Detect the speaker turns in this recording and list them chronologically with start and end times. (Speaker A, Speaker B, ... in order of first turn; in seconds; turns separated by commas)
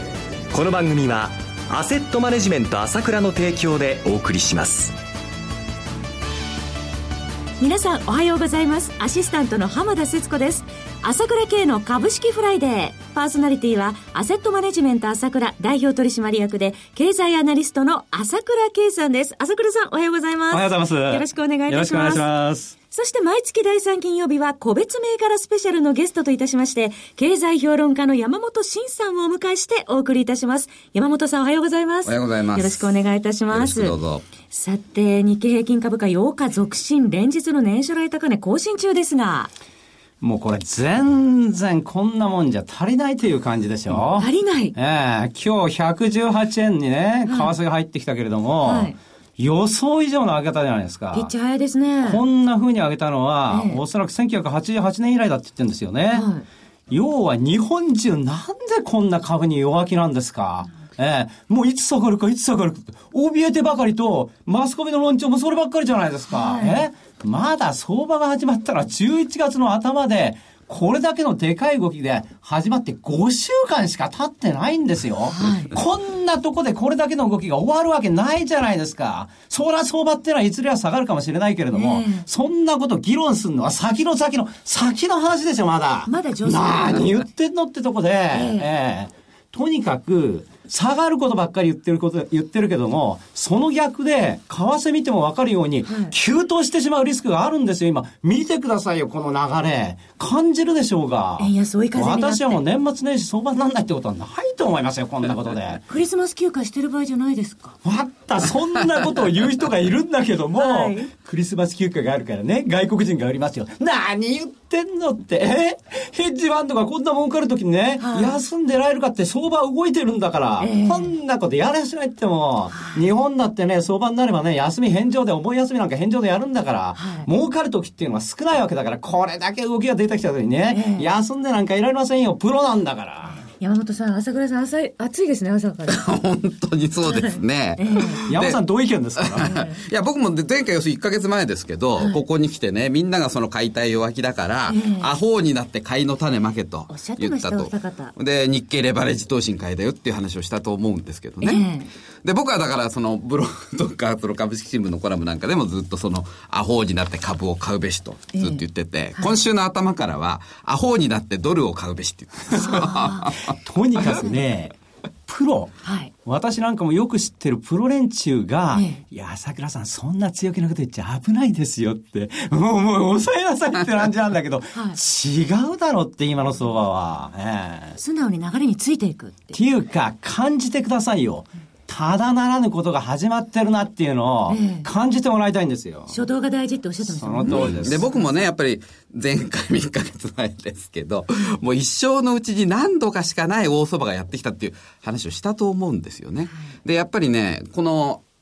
Speaker A: 0.5-4.9, Speaker B: 7.6-22.3, Speaker C: 20.5-22.7, Speaker B: 22.9-33.9, Speaker D: 32.0-33.0, Speaker D: 33.5-34.2, Speaker B: 34.5-39.5, Speaker C: 40.2-51.3, Speaker B: 44.1-44.7, Speaker B: 47.3-47.6, Speaker B: 48.6-49.0, Speaker B: 51.1-52.2, Speaker C: 52.0-56.2, Speaker B: 53.5-53.8, Speaker B: 56.1-56.5, Speaker C: 56.9-105.8, Speaker B: 66.3-66.9, Speaker B: 75.3-75.7, Speaker B: 81.7-82.3, Speaker B: 86.0-87.1, Speaker B: 88.3-88.7, Speaker B: 95.8-96.1, Speaker B: 101.4-102.6, Speaker B: 105.9-107.8, Speaker C: 107.8-133.4, Speaker B: 110.6-111.1, Speaker B: 118.0-118.4, Speaker B: 120.6-121.1, Speaker B: 122.7-123.0, Speaker B: 127.0-127.3, Speaker B: 130.7-131.1, Speaker B: 133.4-136.1, Speaker D: 135.8-138.6, Speaker B: 137.0-138.2, Speaker C: 138.3-139.5, Speaker D: 139.2-151.6, Speaker B: 139.4-139.8, Speaker B: 142.0-142.2, Speaker B: 144.7-145.1, Speaker B: 146.9-148.1, Speaker B: 151.4-151.9, Speaker D: 152.2-164.2, Speaker B: 158.3-158.6, Speaker B: 162.5-163.3, Speaker C: 162.6-162.9, Speaker C: 163.5-164.8, Speaker C: 165.3-177.9, Speaker B: 165.8-166.1, Speaker B: 168.7-169.0, Speaker B: 178.0-179.6, Speaker C: 179.5-186.2, Speaker B: 184.5-184.9, Speaker B: 186.1-188.4, Speaker C: 187.1-188.0, Speaker D: 187.4-198.2